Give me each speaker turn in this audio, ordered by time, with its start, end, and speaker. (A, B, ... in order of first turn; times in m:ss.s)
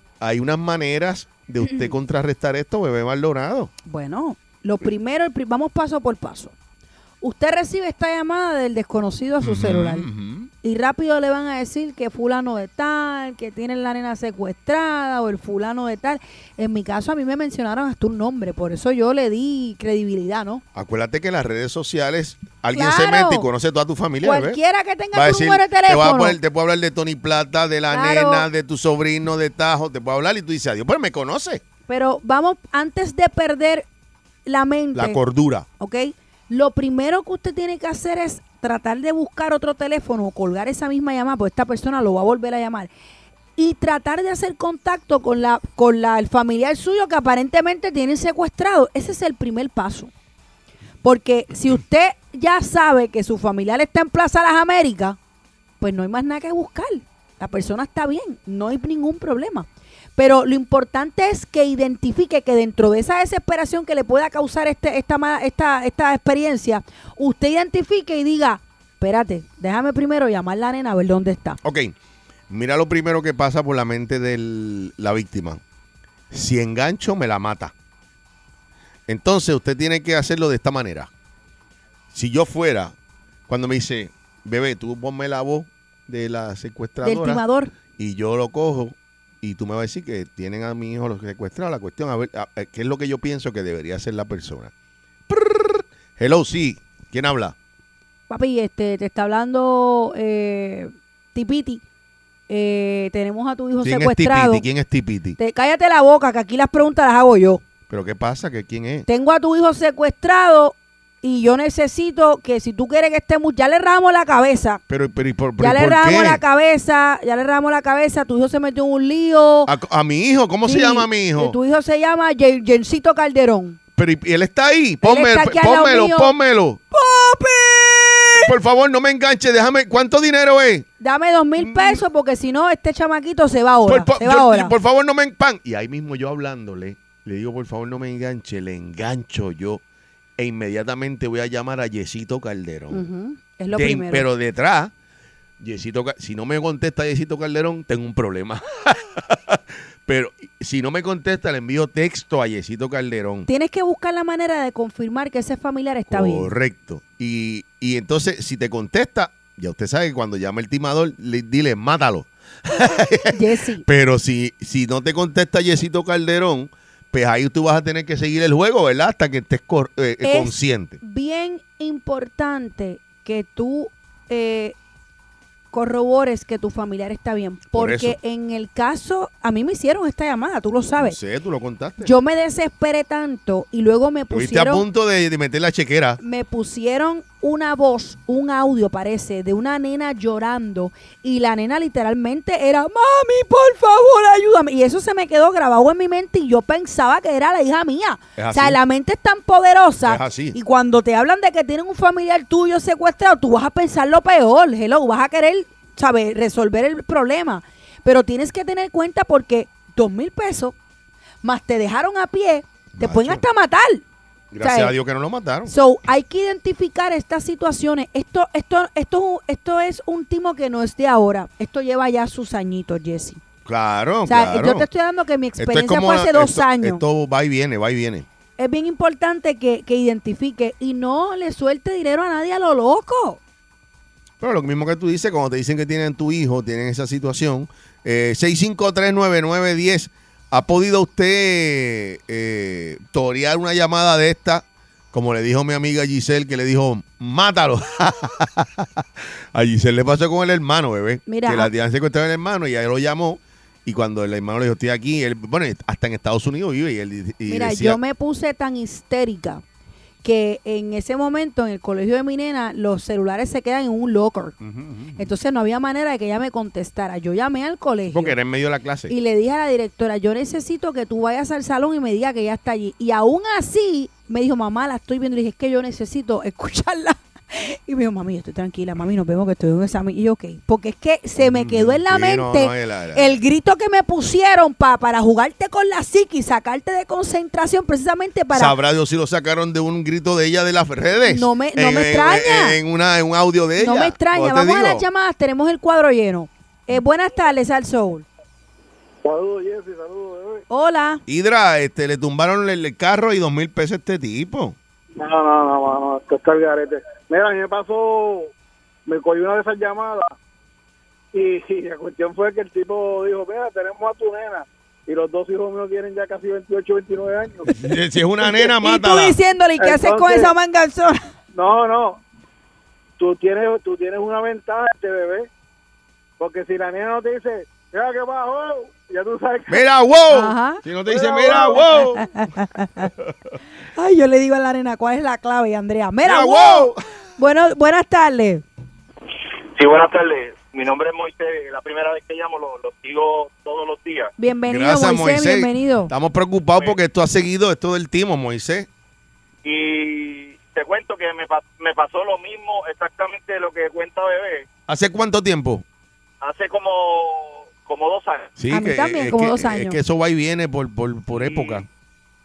0:00.2-0:03.7 A
0:01.6-0:01.9 B
0:03.8-0:06.5 B
0:07.2-0:10.1 B
0:09.4-0:10.5 A
0:10.6-0:20.6 B
0:20.7-0:24.6 A
0:22.7-0:23.5 B
0:24.2-0:26.4 B
0:25.1-0:31.6 A
0:27.9-0:28.5 B
0:31.9-0:33.8 B
0:34.4-0:35.2 B
0:34.9-0:35.6 A
0:35.8-0:42.9 B
0:43.6-0:50.1 B
0:51.0-0:55.2 B
0:55.8-1:11.6 B
1:11.6-1:11.9 A
1:12.5-1:15.6 A
1:16.3-1:17.7 A
1:19.1-1:21.1 A
1:22.1-1:22.9 A
1:23.5-1:34.7 A
1:27.0-1:27.7 B
1:35.3-1:37.5 A
1:38.3-1:41.8 B
1:42.5-1:44.6 B
1:43.8-1:45.4 A
1:45.4-1:47.6 B
1:47.9-1:49.1 A
1:49.1-1:54.8 B
1:54.9-1:56.4 A
1:55.6-1:59.7 B
1:59.6-2:01.6 A
2:00.6-2:03.8 B
2:04.0-2:06.8 A
2:05.0-2:06.3 B
2:06.9-2:08.5 B
2:08.4-2:10.8 A
2:11.0-2:14.7 B
2:11.6-2:12.0 A
2:13.9-2:19.8 A
2:20.4-2:23.0 A
2:22.9-2:24.2 B
2:23.7-2:24.9 A
2:25.6-2:33.5 A
2:33.5-2:36.5 B
2:36.1-2:51.0 A
2:43.3-2:43.8 B
2:50.2-2:54.7 B
2:55.7-3:01.2 B
2:57.7-2:58.2 A
3:01.0-3:02.1 A
3:02.0-3:04.8 B
3:04.3-3:06.2 A
3:06.2-3:30.7 B
3:18.4-3:18.8 A
3:20.0-3:20.6 A
3:31.4-3:34.0 B
3:32.9-3:33.4 A
3:34.5-3:35.7 A
3:34.6-3:34.9 B
3:35.6-3:43.4 B
3:43.6-3:44.9 A
3:44.2-3:47.0 B
3:45.6-3:48.3 A
3:48.6-3:53.4 B
3:54.4-4:08.9 A
4:09.5-4:18.0 A
4:11.3-4:11.7 B
4:17.4-4:19.6 B
4:20.2-4:24.5 B
4:24.6-4:25.3 A
4:25.2-4:28.4 B
4:28.1-4:29.1 A
4:29.1-4:48.7 B
4:41.4-4:43.4 A
4:48.5-4:55.0 A
4:51.2-4:52.8 B
4:53.8-4:58.2 B
4:59.2-5:00.6 C
5:00.7-5:01.2 B
5:01.3-5:04.8 A
5:05.2-5:08.5 C
5:09.1-5:10.3 C
5:11.3-5:17.8 C
5:17.8-5:19.4 A
5:18.8-5:21.2 B
5:19.8-5:20.5 C
5:21.5-5:22.2 C
5:23.2-5:25.5 C
5:26.4-5:29.8 C
5:29.7-5:32.3 A
5:30.3-5:30.8 B
5:31.1-5:31.8 C
5:31.9-5:33.1 B
5:34.0-5:38.6 B
5:36.2-5:37.0 A
5:39.7-5:44.3 D
5:44.4-5:46.1 B
5:44.7-5:48.9 A
5:49.6-5:54.7 D
5:54.9-5:55.8 A
5:56.4-5:58.6 D
5:58.6-6:01.8 A
5:58.7-6:00.0 B
6:01.3-6:01.8 D